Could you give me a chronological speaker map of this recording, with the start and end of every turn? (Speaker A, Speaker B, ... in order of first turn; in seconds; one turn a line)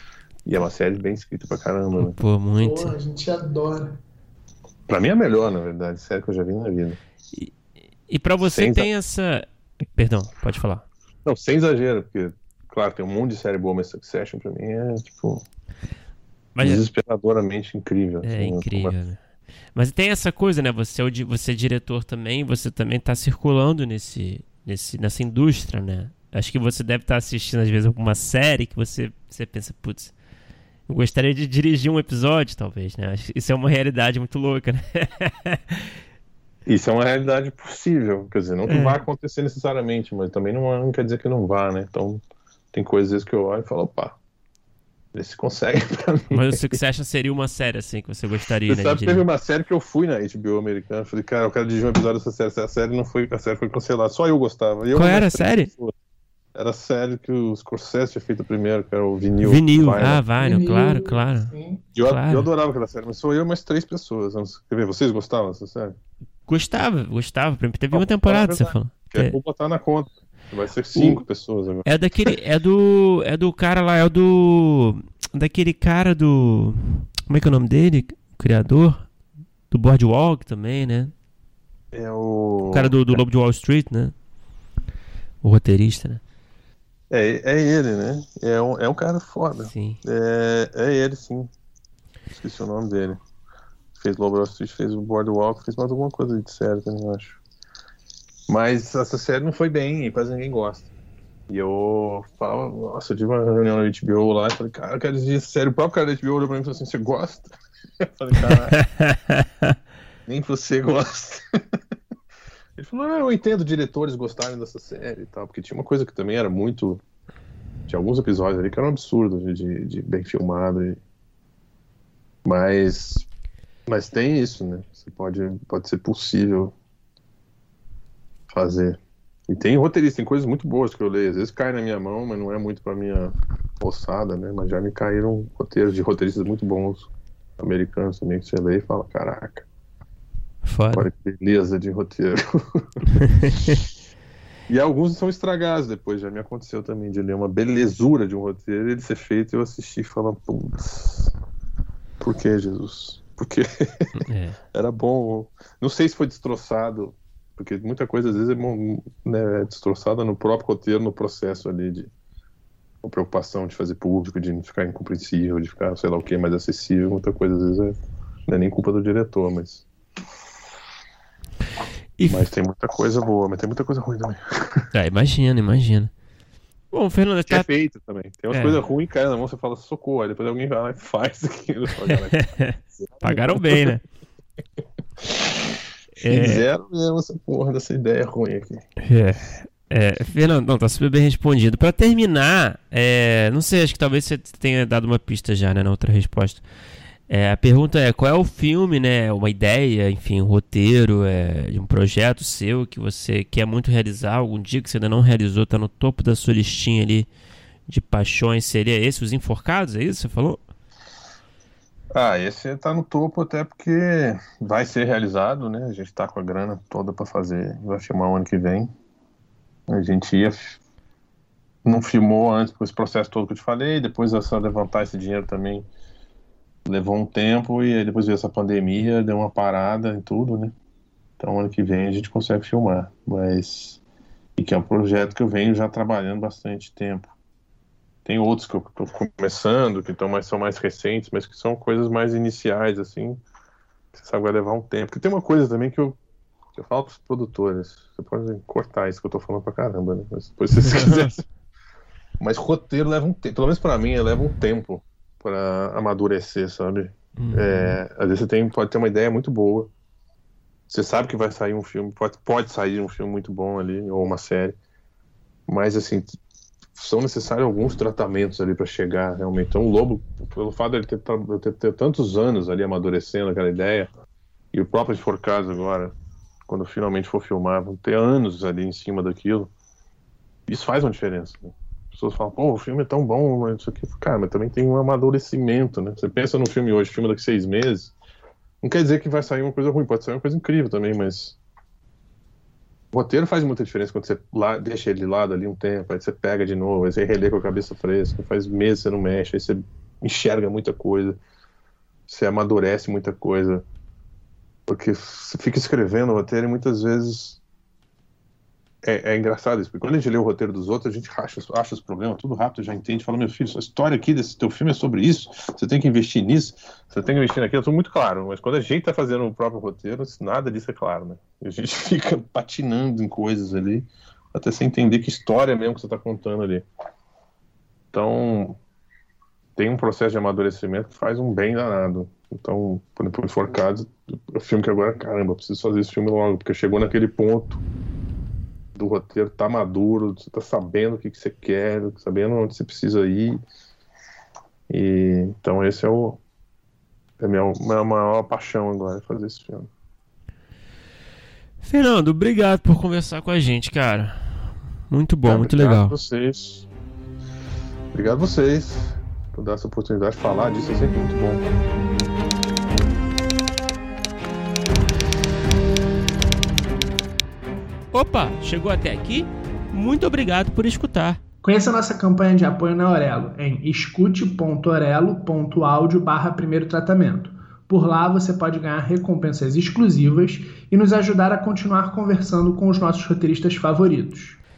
Speaker A: 0.5-2.2
Speaker B: 2.0-3.0
Speaker C: 2.6-4.0
Speaker A: 4.9-7.0
Speaker B: 8.1-10.9
Speaker A: 8.4-8.9
Speaker A: 11.2-15.4
Speaker A: 16.6-19.0
Speaker B: 16.6-16.8
Speaker B: 18.2-19.2
Speaker B: 19.7-30.1
Speaker B: 30.9-35.9
Speaker A: 36.7-44.2
Speaker B: 38.7-39.0
Speaker A: 45.1-46.6
Speaker B: 46.3-49.2
Speaker A: 48.6-55.9
Speaker B: 54.9-55.7
Speaker A: 56.5-60.3
Speaker B: 59.4-61.5
Speaker C: 60.3-61.9
Speaker A: 62.0-66.0
Speaker B: 62.1-62.5
Speaker B: 66.5-69.4
Speaker A: 67.9-72.3
Speaker B: 71.0-71.2
Speaker B: 71.8-79.1
Speaker B: 79.7-81.1
Speaker A: 81.9-83.2
Speaker B: 82.7-84.1
Speaker B: 85.4-86.2
Speaker A: 87.1-91.5
Speaker B: 89.7-90.0
Speaker A: 92.3-93.2
Speaker A: 94.0-97.4
Speaker A: 98.5-100.9
Speaker A: 101.5-108.8
Speaker B: 109.0-109.7
Speaker A: 110.3-111.4
Speaker A: 112.8-117.0
Speaker A: 117.9-121.0
Speaker A: 122.5-123.3
Speaker A: 123.9-126.7
Speaker A: 128.5-139.7
Speaker B: 140.6-141.1
Speaker A: 140.9-143.1
Speaker B: 143.2-143.7
Speaker A: 144.7-151.3
Speaker A: 152.2-154.1
Speaker B: 154.2-154.6
Speaker A: 154.7-162.1
Speaker A: 163.0-169.9
Speaker B: 172.2-172.5
Speaker A: 172.3-174.9
Speaker B: 174.9-176.1
Speaker B: 176.9-177.7
Speaker A: 177.5-183.9
Speaker B: 178.5-178.8
Speaker B: 182.1-184.0
Speaker A: 185.2-185.6
Speaker B: 186.2-186.7
Speaker A: 186.2-188.8
Speaker B: 189.0-196.6
Speaker B: 197.3-207.3
Speaker B: 207.9-210.6
Speaker A: 212.1-218.9
Speaker A: 219.9-220.8
Speaker A: 221.8-225.9
Speaker A: 226.9-230.7
Speaker A: 231.4-234.0
Speaker A: 234.6-237.3
Speaker A: 238.2-243.4
Speaker A: 244.1-246.2
Speaker A: 246.8-251.5
Speaker B: 250.8-251.3
Speaker A: 252.4-259.9
Speaker B: 257.4-258.0
Speaker A: 260.9-264.8
Speaker A: 265.7-266.4
Speaker A: 266.9-274.1
Speaker A: 274.7-276.1
Speaker A: 276.7-279.7
Speaker A: 280.7-288.1
Speaker A: 288.8-291.6
Speaker A: 293.1-301.4
Speaker A: 302.3-303.8
Speaker A: 304.9-307.6
Speaker A: 309.0-326.9
Speaker A: 328.1-328.8
Speaker A: 329.8-337.8
Speaker A: 338.9-343.6
Speaker A: 344.9-346.4
Speaker A: 347.4-349.9
Speaker B: 351.8-356.1
Speaker A: 355.4-356.9
Speaker A: 358.1-361.7
Speaker B: 368.1-371.4
Speaker C: 371.6-384.6